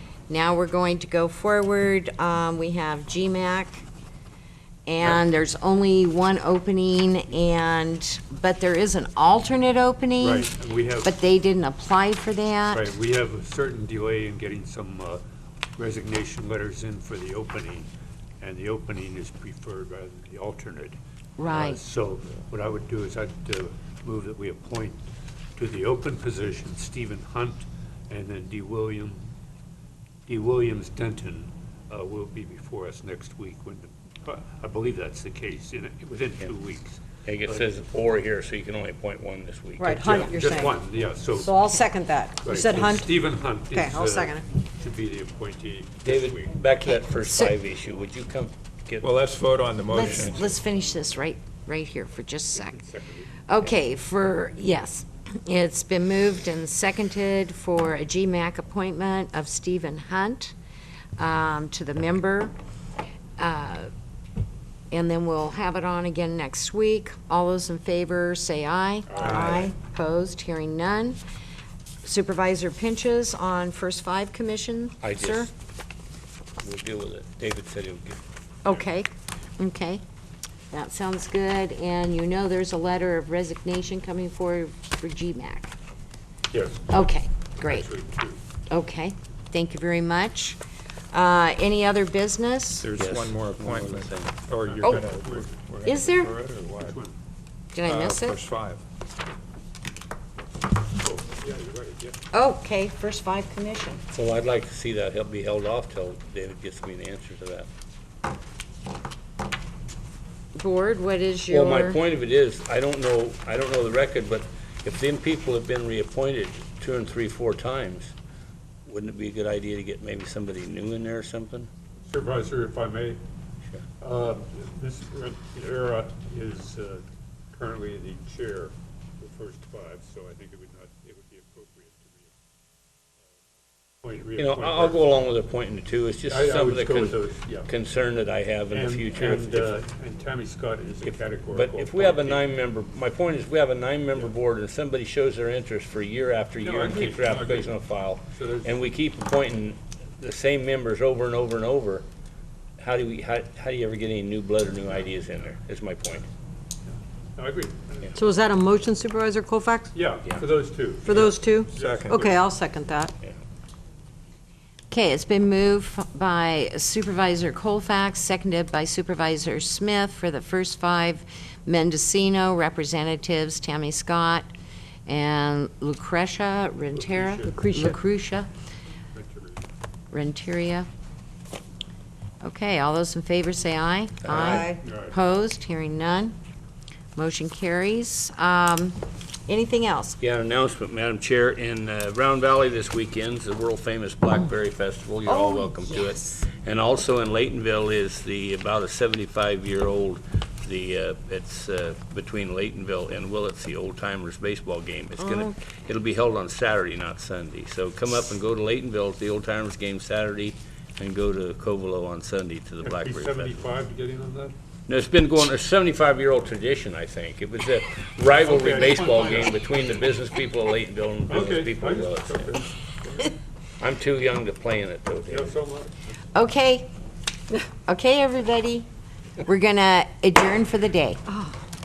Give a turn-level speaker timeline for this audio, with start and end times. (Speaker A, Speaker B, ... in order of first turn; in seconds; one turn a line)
Speaker A: 0.3-3.9
Speaker A: 4.9-10.5
Speaker B: 10.2-11.1
Speaker A: 11.0-12.9
Speaker B: 12.7-15.2
Speaker B: 15.8-17.9
Speaker B: 18.4-25.0
Speaker A: 21.4-21.8
Speaker B: 25.6-29.3
Speaker B: 30.3-37.6
Speaker C: 37.2-40.4
Speaker D: 39.8-40.8
Speaker B: 40.0-41.6
Speaker D: 41.4-43.1
Speaker B: 42.4-46.5
Speaker D: 43.7-44.4
Speaker C: 46.0-49.1
Speaker E: 49.0-50.5
Speaker A: 49.9-52.8
Speaker B: 52.7-53.3
Speaker A: 53.5-60.5
Speaker A: 61.2-62.5
Speaker A: 63.4-63.9
Speaker A: 64.9-71.2
Speaker B: 69.1-69.7
Speaker E: 69.2-69.6
Speaker A: 72.0-75.5
Speaker C: 75.0-75.5
Speaker C: 76.6-78.2
Speaker A: 78.6-80.0
Speaker A: 80.7-85.7
Speaker B: 86.5-87.0
Speaker A: 86.9-87.9
Speaker B: 87.6-88.4
Speaker A: 88.7-90.6
Speaker A: 91.1-92.9
Speaker E: 92.8-97.0
Speaker C: 93.0-94.4
Speaker B: 94.6-95.5
Speaker A: 94.8-95.1
Speaker A: 95.8-96.3
Speaker B: 96.8-97.2
Speaker A: 97.7-98.4
Speaker E: 97.8-98.8
Speaker B: 101.0-102.2
Speaker A: 102.3-104.0
Speaker C: 104.1-107.7
Speaker A: 110.5-112.0
Speaker C: 111.5-118.1
Speaker C: 118.8-121.7
Speaker B: 122.0-123.2
Speaker B: 124.0-132.3
Speaker B: 134.0-135.1
Speaker C: 134.4-139.8
Speaker B: 136.3-137.7
Speaker B: 138.7-142.4
Speaker C: 141.0-152.0
Speaker B: 146.6-148.7
Speaker C: 152.8-156.3
Speaker B: 156.9-158.2
Speaker D: 158.2-159.9
Speaker B: 159.9-162.1
Speaker D: 161.1-163.1
Speaker E: 161.7-162.4
Speaker A: 164.9-174.5
Speaker A: 175.1-178.5
Speaker B: 176.9-177.7
Speaker D: 177.5-177.9
Speaker B: 179.1-179.6
Speaker A: 180.1-180.9
Speaker A: 182.4-186.3
Speaker C: 184.2-184.7
Speaker D: 184.3-184.8
Speaker B: 184.7-185.2
Speaker A: 187.2-190.2
Speaker C: 190.2-213.7
Speaker A: 195.2-196.4
Speaker A: 205.2-205.5
Speaker B: 212.8-214.5
Speaker C: 214.9-222.5
Speaker B: 218.3-219.6
Speaker B: 221.3-223.3
Speaker C: 223.8-225.5
Speaker B: 225.3-226.0
Speaker A: 226.3-226.9
Speaker A: 227.8-228.9
Speaker A: 229.4-231.2